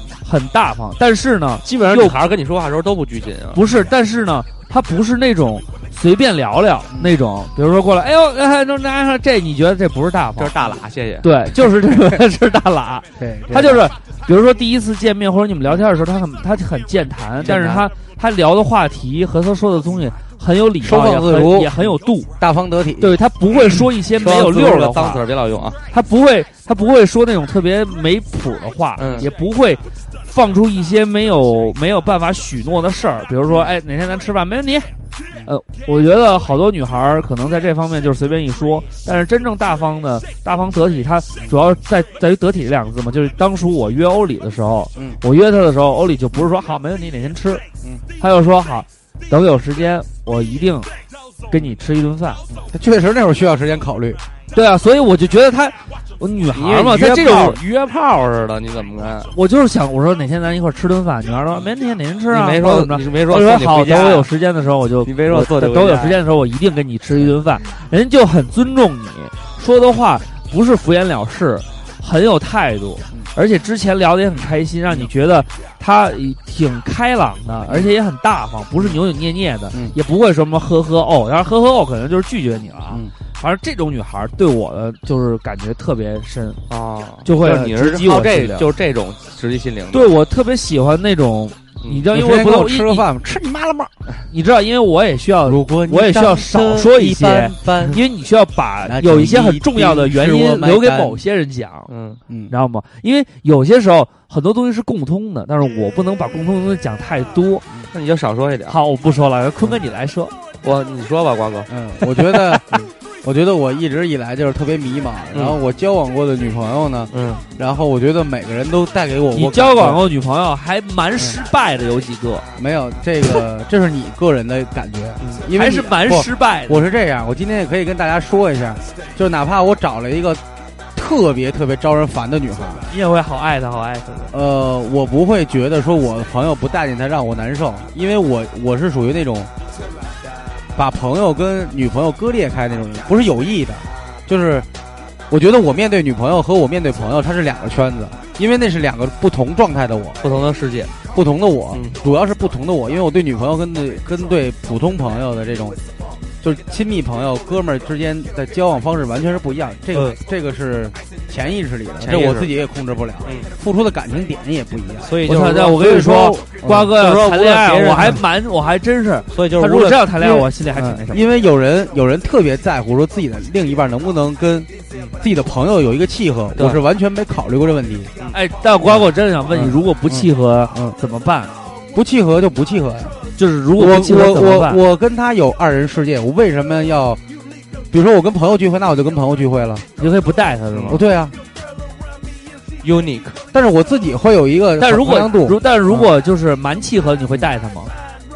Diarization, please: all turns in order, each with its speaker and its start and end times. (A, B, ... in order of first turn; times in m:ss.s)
0:00.2-0:02.2 A
0:01.6-0:03.6 B
0:03.5-0:10.5 A
0:10.4-0:11.3 B
0:11.2-0:22.3 A
0:13.2-0:13.9 C
0:17.4-0:17.9 B
0:20.8-0:21.7 C
0:22.4-0:23.2 C
0:23.0-0:25.2 A
0:23.6-0:25.8 B
0:25.9-0:34.9 A
0:29.0-0:29.3 B
0:35.4-0:47.6 A
0:48.2-0:50.9 A
0:51.5-0:52.4 A
0:52.6-0:54.2 C
0:54.5-0:57.6 A
0:56.5-0:59.3 B
0:59.3-1:26.6 A
1:02.3-1:04.3 B
1:05.0-1:06.2 B
1:26.7-1:30.1 B
1:27.2-1:28.7 A
1:29.9-1:33.0 A
1:32.1-1:33.9 C
1:34.3-1:41.9 A
1:35.4-1:38.0 C
1:38.8-1:41.2 C
1:41.9-1:42.2 B
1:42.5-1:47.6 A
1:47.9-1:48.8 B
1:48.7-1:50.3 A
1:50.6-1:51.7 B
1:51.7-1:52.6 C
1:52.4-1:52.9 B
1:53.2-2:00.0 C
1:55.3-1:55.6 B
1:57.1-1:57.4 B
1:59.3-2:02.4 A
2:02.6-2:10.4 C
2:05.5-2:06.8 A
2:10.9-2:12.9 C
2:12.9-2:14.3 A
2:14.3-2:19.5 C
2:20.7-2:24.7 C
2:25.3-2:30.2 C
2:30.2-2:30.9 B
2:31.1-2:35.8 C
2:31.7-2:32.0 B
2:36.4-2:45.1 C
2:42.0-2:42.5 B
2:45.0-2:46.0 B
2:45.2-2:51.3 A
2:45.7-2:46.9 C
2:46.8-2:48.2 B
2:49.3-2:50.1 B
2:50.2-2:58.1 C
2:56.6-2:56.8 B
2:58.3-3:01.5 A
2:59.5-3:01.0 C
3:01.9-3:03.2 C
3:03.4-3:04.8 A
3:03.7-3:07.2 C
3:07.9-3:09.8 C
3:10.0-3:11.0 A
3:10.7-3:11.0 B
3:10.9-3:11.4 C
3:12.8-3:13.4 B
3:13.5-3:16.1 C
3:14.8-3:17.9 A